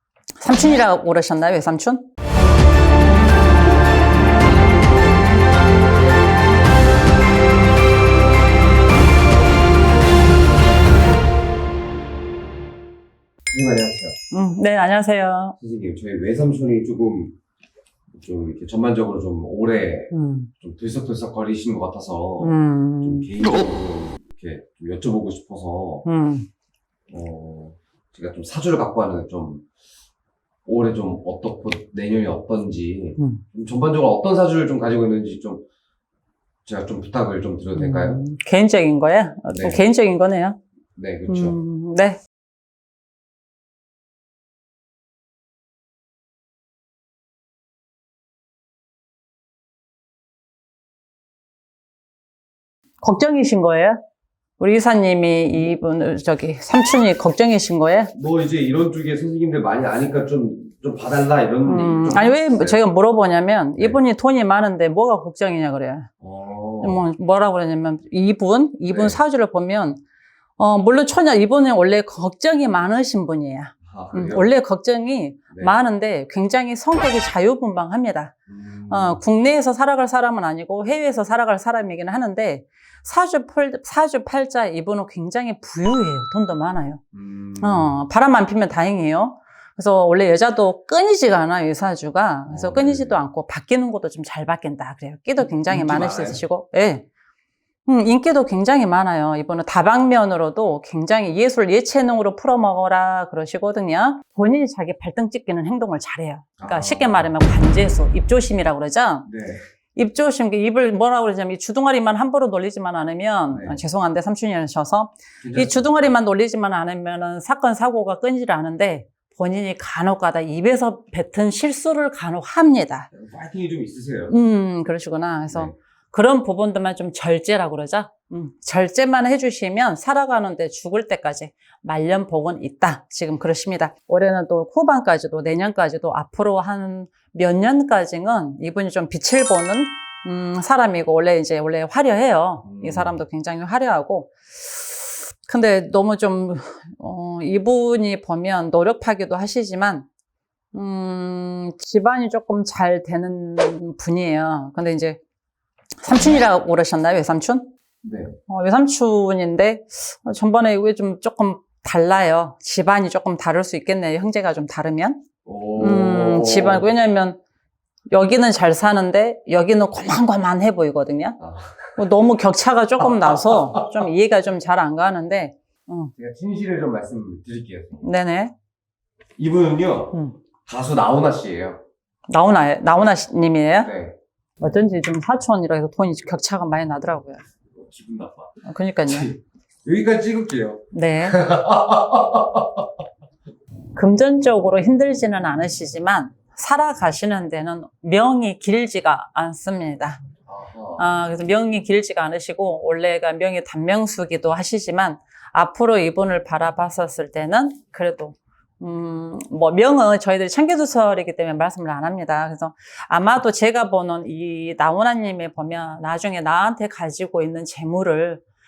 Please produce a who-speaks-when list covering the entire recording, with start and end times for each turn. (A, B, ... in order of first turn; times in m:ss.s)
0:00.4-0:02.1 A
0:13.5-0:14.2 B
0:14.3-0:15.6 A
0:15.6-0:17.4 B
0:18.1-0:26.1 B
0:20.1-0:20.5 A
0:22.4-0:23.3 A
0:26.1-0:26.5 A
0:27.1-0:29.6 B
0:30.7-0:35.6 B
0:36.7-0:38.2 B
0:37.8-0:40.6 A
0:39.5-0:39.8 B
0:41.0-0:41.6 B
0:41.3-0:42.2 A
0:53.0-0:54.0 A
0:54.6-0:58.1 A
0:58.2-1:02.8 B
1:01.6-1:06.1 A
1:06.2-1:07.0 B
1:06.8-1:10.0 A
1:08.9-1:09.2 B
1:10.6-1:18.4 A
1:13.8-1:14.5 B
1:15.5-1:15.8 B
1:18.5-1:19.2 B
1:18.9-1:27.0 A
1:27.1-1:28.0 B
1:27.6-1:37.1 A
1:32.5-1:33.2 B
1:35.4-1:36.4 B
1:37.9-1:49.3 A
1:46.6-1:47.3 B
1:49.3-1:49.6 B
1:49.9-2:03.1 A
1:53.5-1:53.8 B
1:55.4-1:55.9 B
2:03.1-2:04.4 B
2:04.3-2:30.1 A
2:22.6-2:23.2 B
2:30.7-2:35.2 A
2:36.0-2:37.7 A
2:38.0-2:38.4 B
2:38.5-2:45.2 A
2:45.4-2:46.9 B
2:45.8-2:47.4 A
2:48.1-2:51.4 A
2:51.4-2:52.1 B
2:52.0-2:56.1 A
2:53.0-2:54.1 B
2:56.2-2:58.1 B
2:58.0-2:58.5 A
2:59.4-3:01.8 B
3:02.3-3:03.9 A
3:03.8-3:04.2 B
3:04.6-3:07.4 A
3:07.8-3:13.0 B
3:08.6-3:09.3 A
3:10.9-3:11.4 A
3:13.9-3:20.2 A
3:20.5-3:21.1 B
3:21.0-3:38.4 A